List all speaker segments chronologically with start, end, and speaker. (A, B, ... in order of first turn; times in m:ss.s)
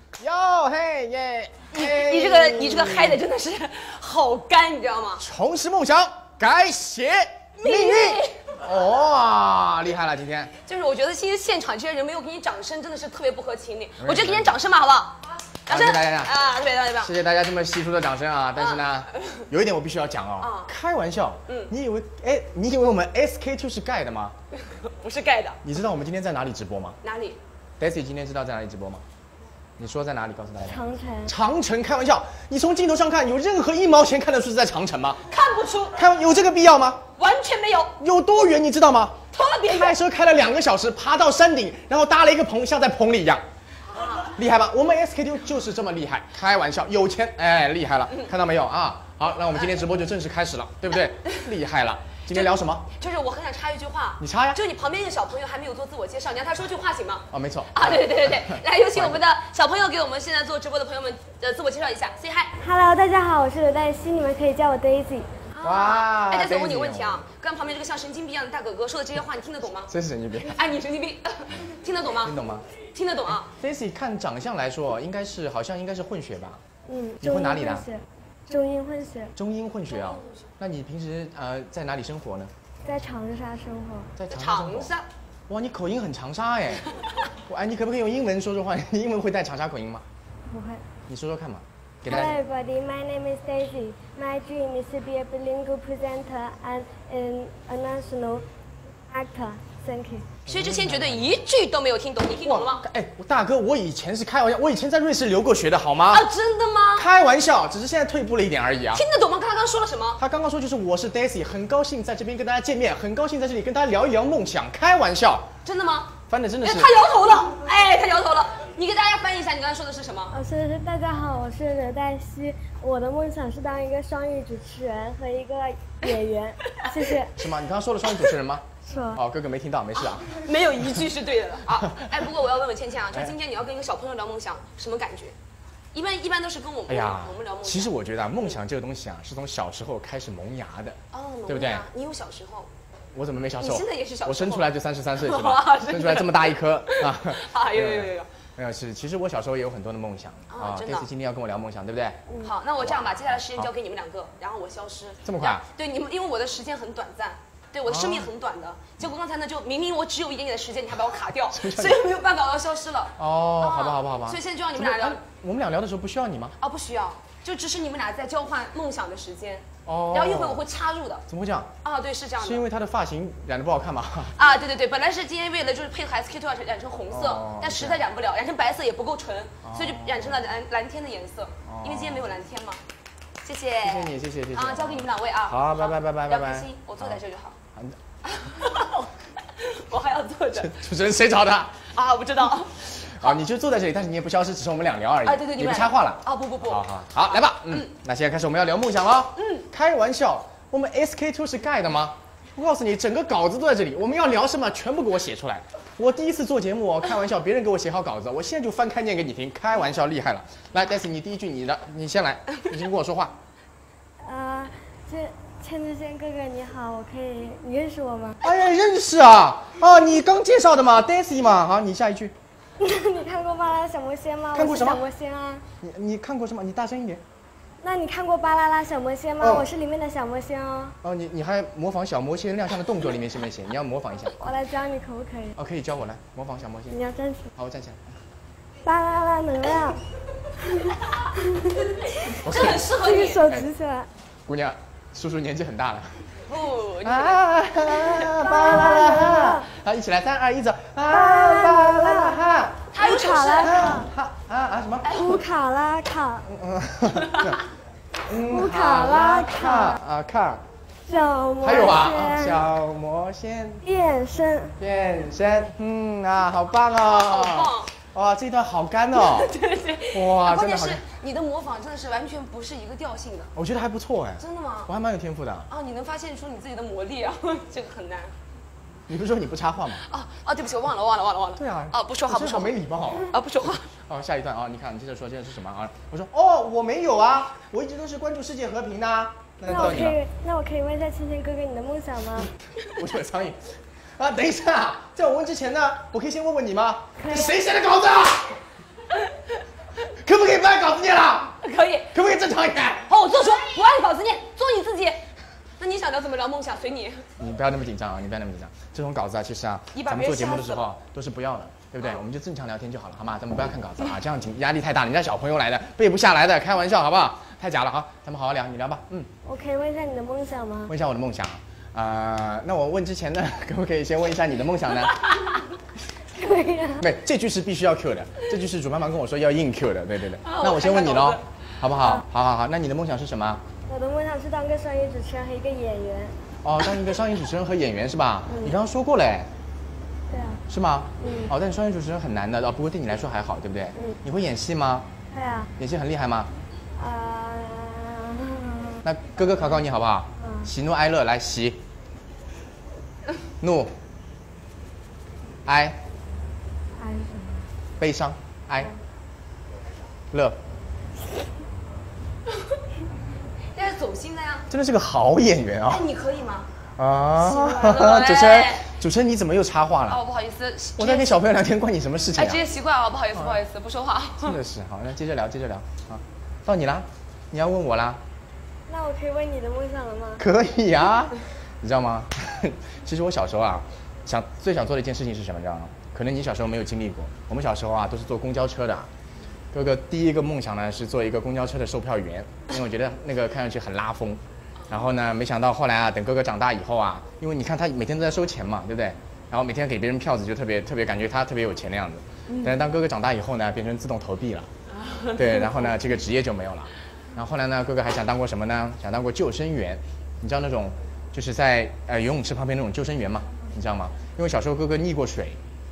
0:00.2-0:03.2 A
0:01.7-0:05.2 B
0:05.2-0:10.5 A
0:07.6-0:08.6 B
0:10.7-0:17.1 B
0:14.0-0:14.6 A
0:15.7-0:16.3 A
0:17.0-0:24.4 A
0:18.6-0:19.4 B
0:20.4-0:20.7 B
0:24.5-0:25.6 B
0:25.6-0:27.0 A
0:27.0-0:27.4 B
0:27.8-0:29.0 A
0:29.8-0:35.2 A
0:30.6-0:31.3 C
0:35.3-0:36.0 B
0:35.9-0:37.0 A
0:37.2-0:38.0 B
0:38.0-0:43.4 A
0:39.3-0:40.0 B
0:43.9-0:44.3 B
0:44.3-0:52.9 A
0:52.3-1:02.5 B
0:54.2-0:54.6 A
0:57.3-0:59.2 A
1:02.6-1:05.3 C
1:05.5-1:09.9 B
1:05.6-1:07.2 A
1:09.9-1:10.6 A
1:10.4-1:12.4 B
1:12.2-1:12.7 A
1:12.9-1:13.5 B
1:13.3-1:16.6 A
1:16.9-1:19.3 C
1:17.2-1:17.9 A
1:19.4-1:22.5 A
1:19.9-1:20.5 B
1:22.8-1:24.1 C
1:24.2-1:24.9 A
1:24.3-1:25.0 B
1:25.5-1:26.8 A
1:27.5-1:30.0 A
1:30.5-1:30.8 C
1:31.1-1:32.4 A
1:32.1-1:38.5 C
1:39.1-1:40.3 C
1:40.5-1:41.4 A
1:40.5-1:42.8 B
1:42.4-1:46.3 A
1:46.1-1:47.1 B
1:47.0-1:49.0 A
1:48.9-1:50.2 B
1:50.2-1:55.5 A
1:55.6-2:00.4 B
1:56.3-1:57.0 A
2:00.3-2:07.3 C
2:06.7-2:07.0 B
2:07.4-2:10.5 A
2:08.8-2:09.2 C
2:10.0-2:15.4 B
2:11.8-2:12.3 A
2:15.9-2:17.9 B
2:16.9-2:21.9 A
2:21.1-2:22.7 B
2:23.2-2:32.2 A
2:23.6-2:28.3 B
2:30.5-2:31.1 B
2:32.4-2:45.2 B
2:32.8-2:33.7 A
2:35.2-2:35.7 A
2:37.9-2:38.3 A
2:41.5-2:42.0 A
2:43.2-2:46.6 A
2:46.6-2:51.3 B
2:49.9-2:50.6 A
2:51.3-2:51.7 A
2:51.8-2:52.6 B
2:52.4-2:54.3 A
2:54.4-3:02.8 B
2:57.1-2:58.0 A
2:59.6-3:00.4 A
3:01.7-3:02.3 A
3:03.4-3:07.6 B
3:03.8-3:07.2 A
3:08.2-3:10.7 B
3:10.6-3:11.9 A
3:11.9-3:13.4 B
3:13.0-3:33.4 A
3:15.2-3:17.9 B
3:19.4-3:19.7 B
3:34.2-3:38.4 C
3:38.4-3:42.3 A
3:42.8-3:45.6 C
3:44.5-3:45.0 A
3:45.8-3:47.2 A
3:47.8-3:51.0 C
3:49.4-3:49.7 A
3:51.0-3:54.4 A
3:54.4-3:55.6 C
3:55.6-3:57.0 A
3:56.9-3:57.5 C
3:57.6-3:58.1 A
3:58.8-4:00.0 C
4:00.7-4:02.0 C
4:02.2-4:03.4 B
4:02.4-4:02.9 A
4:02.8-4:04.1 C
4:04.5-4:06.3 A
4:06.5-4:08.3 B
4:07.0-4:12.9 A
4:08.4-4:09.7 C
4:11.1-4:12.4 C
4:12.9-4:14.0 B
4:13.0-4:14.1 C
4:13.6-4:15.1 A
4:15.0-4:15.4 B
4:15.1-4:16.5 C
4:16.5-4:17.6 A
4:17.1-4:17.6 B
4:18.3-4:20.6 A
4:18.3-4:20.0 C
4:21.1-4:22.6 C
4:21.6-4:23.8 A
4:23.8-4:24.8 C
4:24.8-4:29.5 A
4:27.0-4:27.9 B
4:29.2-4:33.5 B
4:30.1-4:31.0 A
4:33.6-4:35.7 A
4:34.4-4:34.9 B
4:35.7-4:38.3 B
4:39.1-4:40.1 A
4:40.1-4:43.9 B
4:41.6-4:43.3 A
4:44.1-4:50.2 A
4:49.7-4:52.5 C
4:52.9-4:58.6 A
4:57.2-4:57.6 C
5:00.2-5:01.6 A
5:01.6-5:02.1 B
5:02.1-5:03.1 A
5:03.1-5:05.3 B
5:05.8-5:07.3 B
5:07.4-5:19.3 A
5:09.9-5:10.9 B
5:19.4-5:20.9 C
5:20.9-5:25.2 A
5:26.3-5:27.1 C
5:27.0-5:33.6 A
5:30.4-5:31.4 B
5:33.9-5:36.4 C
5:36.6-5:39.5 A
5:38.5-5:38.7 B
5:40.3-5:40.6 C
5:40.7-5:45.1 A
5:41.2-5:41.5 C
5:45.3-5:45.7 C
5:45.8-5:46.5 A
5:47.0-5:49.0 C
5:49.0-5:51.8 A
5:50.4-5:50.7 C
5:53.6-5:53.9 A
5:55.7-5:56.0 A
5:57.0-5:57.7 C
5:58.0-5:58.9 A
6:00.3-6:00.6 A
6:03.7-6:04.7 B
6:04.7-6:06.1 A
6:05.9-6:06.7 B
6:07.0-6:10.2 A
6:07.5-6:09.0 B
6:10.1-6:11.4 B
6:11.0-6:12.6 A
6:12.4-6:14.6 B
6:14.4-6:18.2 A
6:18.9-6:20.4 C
6:20.4-6:29.1 A
6:29.7-6:44.7 A
6:42.5-6:42.8 B
6:45.0-6:45.9 B
6:45.4-6:55.6 A